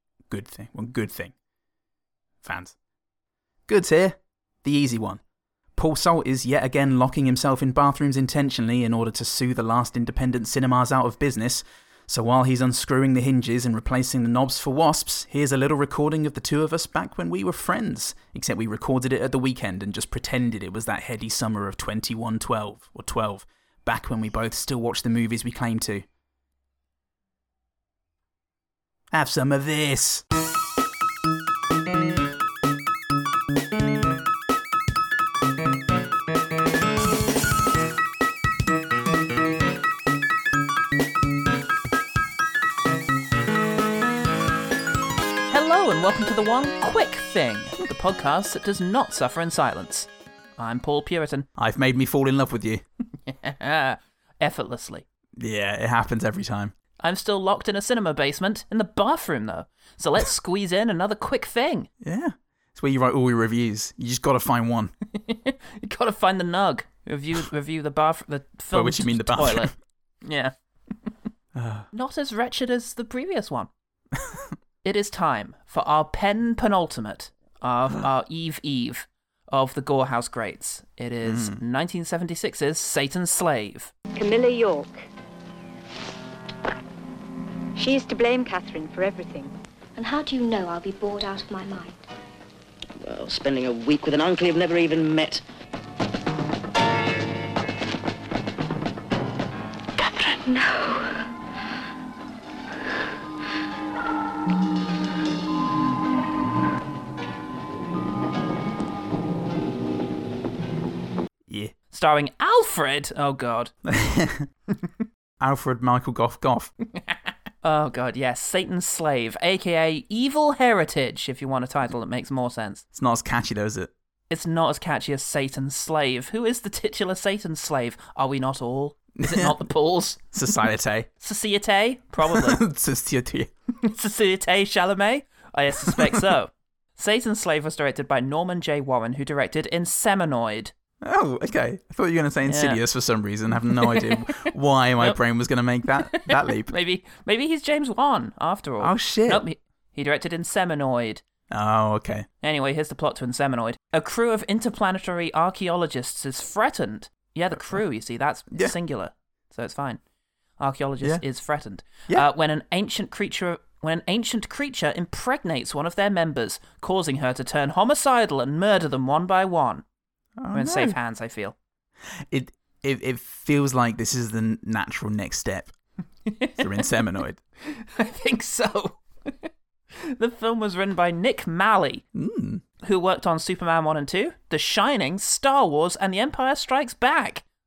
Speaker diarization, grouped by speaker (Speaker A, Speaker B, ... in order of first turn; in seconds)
Speaker A: 0.3-1.3, 2.4-2.7, 3.7-5.2, 5.8-26.1, 29.1-30.2, 51.6-52.8, 55.4-56.7, 62.0-64.9, 68.7-69.7, 71.5-71.9, 74.2-74.4, 81.2-81.6, 113.9-114.5, 115.4-116.7, 122.9-123.9, 129.2-129.6, 130.3-131.1, 132.3-133.5, 135.8-136.2, 141.0-146.7, 148.8-149.4, 151.5-152.3, 157.5-157.8, 170.4-170.9, 172.3-175.7, 176.6-177.4, 182.1-182.6
Speaker B: 45.5-51.5, 53.3-55.0, 57.0-61.9, 65.1-69.7, 70.2-70.5, 71.9-73.7, 74.8-83.9, 111.9-113.7, 117.6-122.8, 124.3-130.3, 131.2-132.6, 133.8-140.7, 142.5-142.8, 143.7-144.3, 146.0-151.2, 152.4-160.0, 160.6-169.8, 170.5-171.5, 176.2-176.8, 177.6-179.5, 180.0-182.0, 182.8-187.4
Speaker C: 84.1-85.1, 87.8-89.5
Speaker D: 90.0-92.0, 100.0-101.3
Speaker E: 93.0-95.4